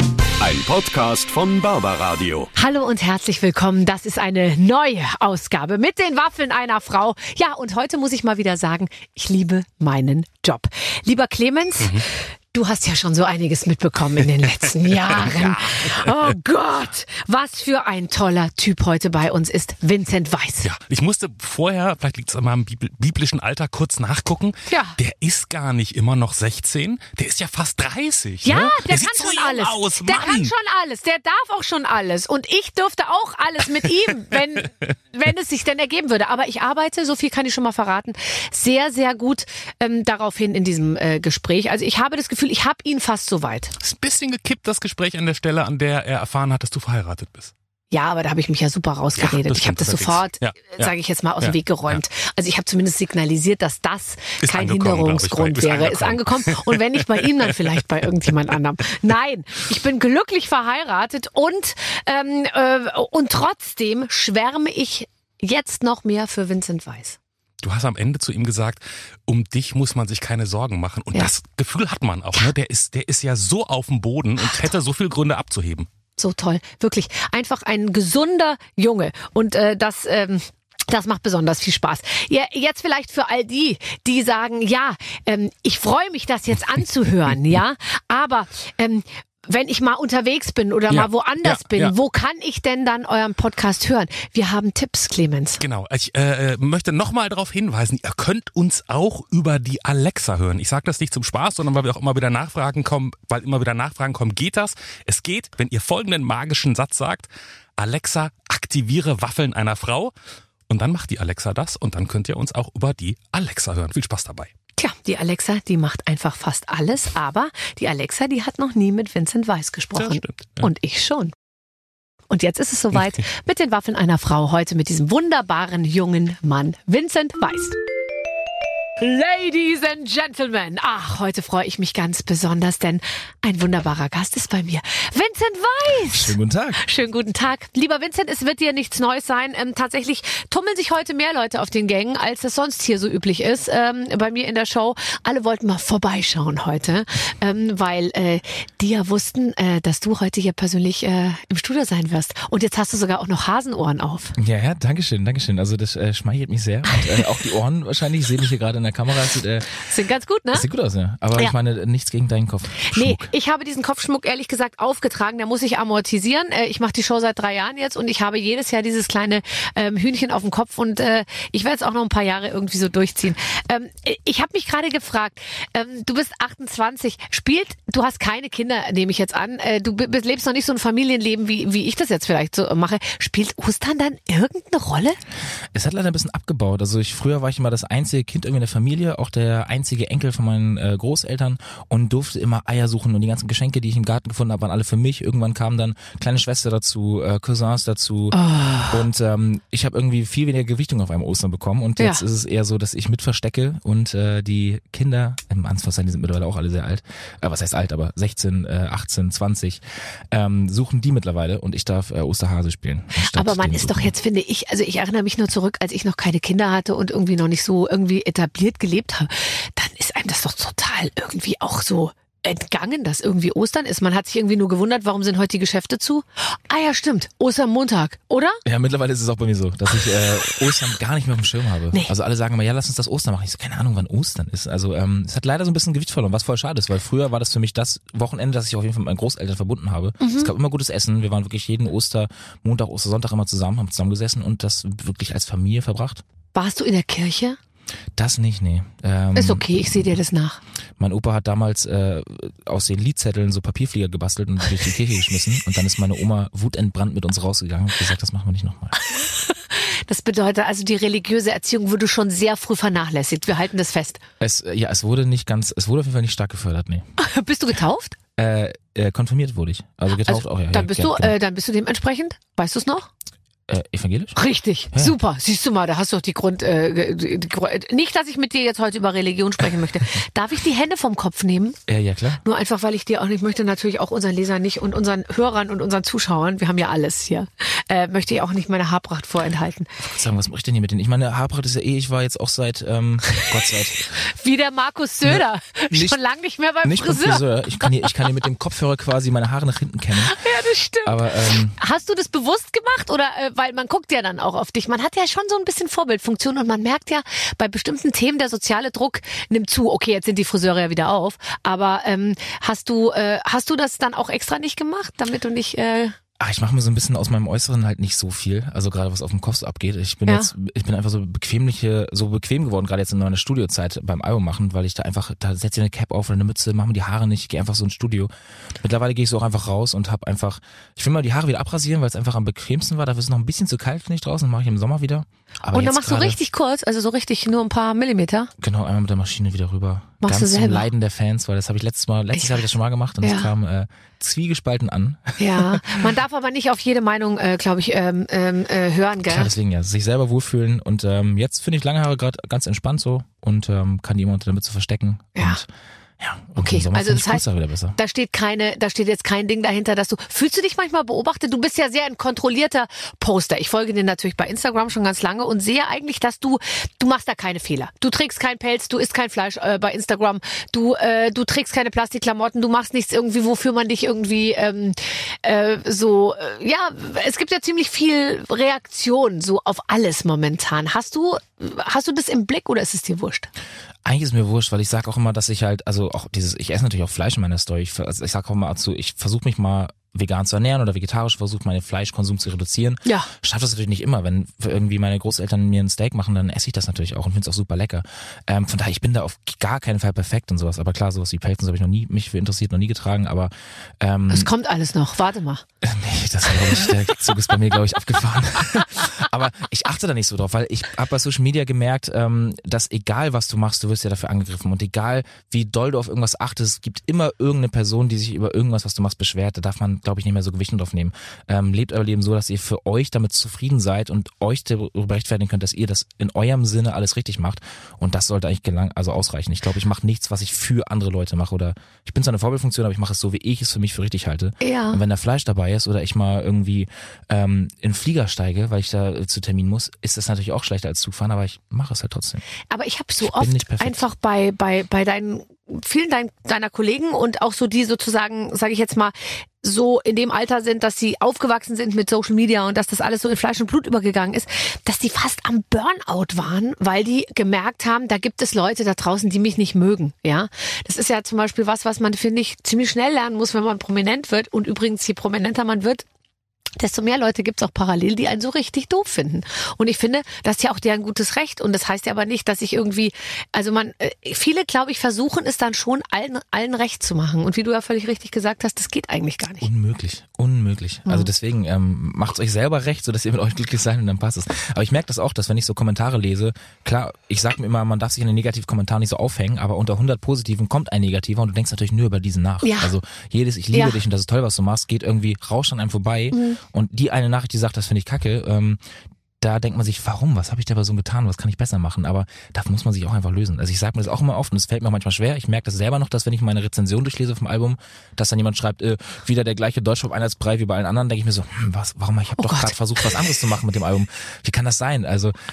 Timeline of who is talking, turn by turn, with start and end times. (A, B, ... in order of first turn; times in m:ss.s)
0:00.4-0:02.5 A
0:02.5-0:20.7 B
0:15.1-0:16.1 C
0:20.6-0:30.5 C
0:24.7-0:25.0 B
0:28.4-0:43.7 B
0:43.8-0:47.5 C
0:47.9-1:07.2 B
0:49.2-0:52.0 C
0:54.4-0:57.8 C
1:07.6-1:15.9 C
1:16.2-1:35.6 B
1:30.9-1:31.9 C
1:35.6-1:50.1 C
1:50.7-1:54.5 C
1:54.8-2:01.3 B
2:00.0-2:00.7 C
2:02.3-2:07.8 B
2:09.0-2:34.3 B
2:16.1-2:16.8 D
2:34.4-2:39.7 D
2:39.8-2:40.6 B
2:40.5-2:43.3 D
2:42.8-3:05.2 B
3:05.7-3:34.1 D
3:18.3-3:19.0 B
3:33.2-3:48.6 B
3:48.6-4:06.2 D
4:00.2-4:00.5 B
4:06.5-4:07.6 B
4:08.2-4:10.2 D
4:09.3-4:10.6 B
4:11.0-4:18.9 D
4:19.0-4:24.2 B
4:24.4-4:27.1 D
4:27.2-4:28.2 B
4:28.4-4:31.4 D
4:30.1-4:33.1 B
4:33.7-4:34.4 D
4:34.4-4:41.8 B
4:41.9-4:42.4 D
4:42.4-4:50.1 B
4:50.0-4:54.0 D
4:54.2-4:58.1 B
4:55.2-4:56.2 D
4:56.8-5:00.4 D
5:00.2-5:16.2 B
5:01.0-5:01.8 D
5:16.4-5:36.4 D
5:35.7-5:38.5 B
5:38.6-5:45.9 D
5:40.2-5:40.9 B
5:42.3-5:42.6 B
5:43.2-5:43.5 B
5:45.4-5:49.5 B
5:49.3-5:55.7 D
5:55.4-5:55.6 B
5:56.2-5:58.0 D
5:56.6-6:23.5 B
6:24.0-6:44.5 D
6:33.0-6:33.3 B
6:44.3-6:45.6 B
6:45.8-7:22.4 D
7:14.6-7:15.0 B
7:22.7-7:46.0 B
7:23.2-7:24.0 D
7:46.8-7:59.7 B
7:59.6-8:18.8 D
8:12.6-8:12.9 B
8:13.7-8:14.0 B
8:16.3-8:16.6 B
8:19.4-8:35.3 D
8:32.4-8:32.7 B